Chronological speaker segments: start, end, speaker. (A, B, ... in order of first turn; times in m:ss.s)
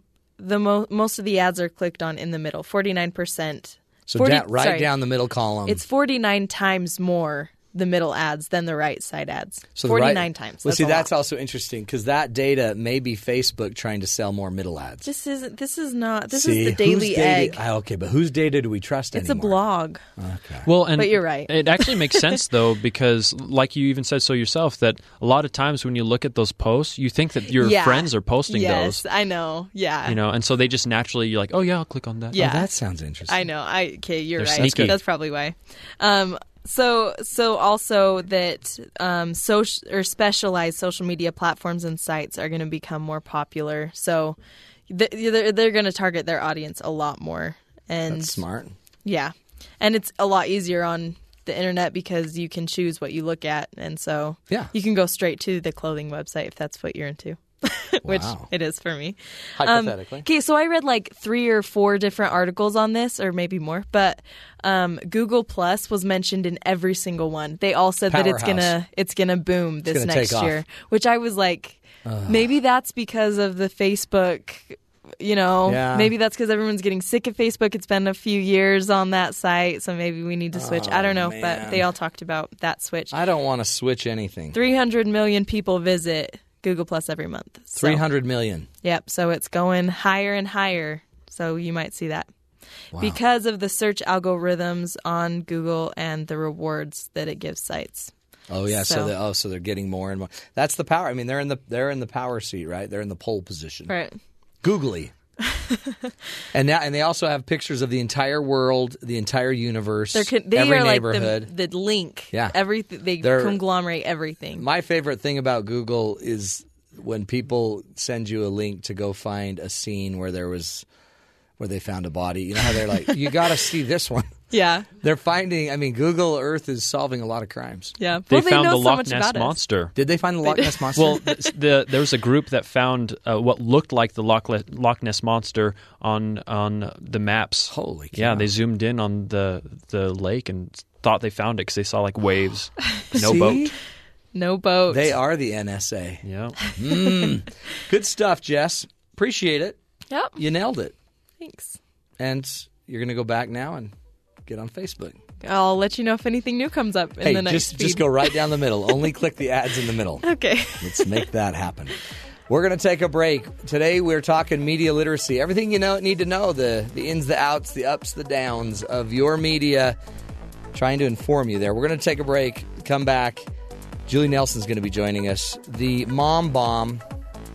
0:00.4-0:04.9 A
0:04.1-0:05.8 B
0:05.7-0:11.1 A
0:09.8-0:15.1 B
0:15.0-0:17.6 A
0:16.3-0:19.6 B
0:19.1-0:20.0 A
0:20.2-0:20.7 B
0:20.6-0:29.0 C
0:21.0-0:22.3 A
0:27.6-0:30.2 A
0:30.0-0:32.4 C
0:32.3-0:33.4 B
0:32.3-0:32.7 A
0:33.3-0:44.4 A
0:34.4-0:35.0 C
0:34.6-0:35.0 B
0:44.9-0:48.4 A
0:48.1-0:48.7 B
0:49.0-1:23.2 A
0:58.0-0:58.5 B
0:59.6-1:00.2 B
1:08.1-1:08.7 B
1:09.9-1:10.6 B
1:12.0-1:12.5 B
1:15.7-1:16.1 B
1:20.5-1:21.8 B
1:23.1-1:24.6 B
1:24.5-1:28.0 A
1:27.8-1:28.7 B
1:28.8-1:32.3 A
1:32.9-1:33.2 B
1:33.0-1:38.1 A
1:38.5-1:43.9 B
1:38.7-1:39.1 A
1:43.9-1:44.2 A
1:44.6-1:45.1 B
1:45.5-1:46.0 A
1:46.5-1:51.5 B
1:50.1-1:54.6 A
1:53.2-1:53.6 B
1:54.6-2:00.8 B
2:01.6-2:04.4 B
2:04.5-2:04.9 A
2:05.0-2:08.0 B
2:08.0-2:09.6 A
2:08.3-2:09.9 C
2:10.0-2:11.3 B
2:10.5-2:10.8 A
2:10.9-2:23.7 C
2:17.7-2:18.5 B
2:23.1-2:23.7 B
2:24.3-2:25.1 A
2:24.9-2:26.2 B
2:26.2-2:26.6 C
2:26.8-2:29.8 B
2:26.8-2:27.3 A
2:30.1-2:30.4 A
2:30.4-2:30.9 B
2:31.4-2:31.8 A
2:32.2-2:33.9 B
2:34.4-2:35.2 B
2:35.4-2:39.0 A
2:37.2-2:40.2 B
2:40.2-2:41.3 A
2:40.8-2:42.0 B
2:42.5-2:50.0 B
2:50.7-2:53.5 B
2:54.1-2:57.0 B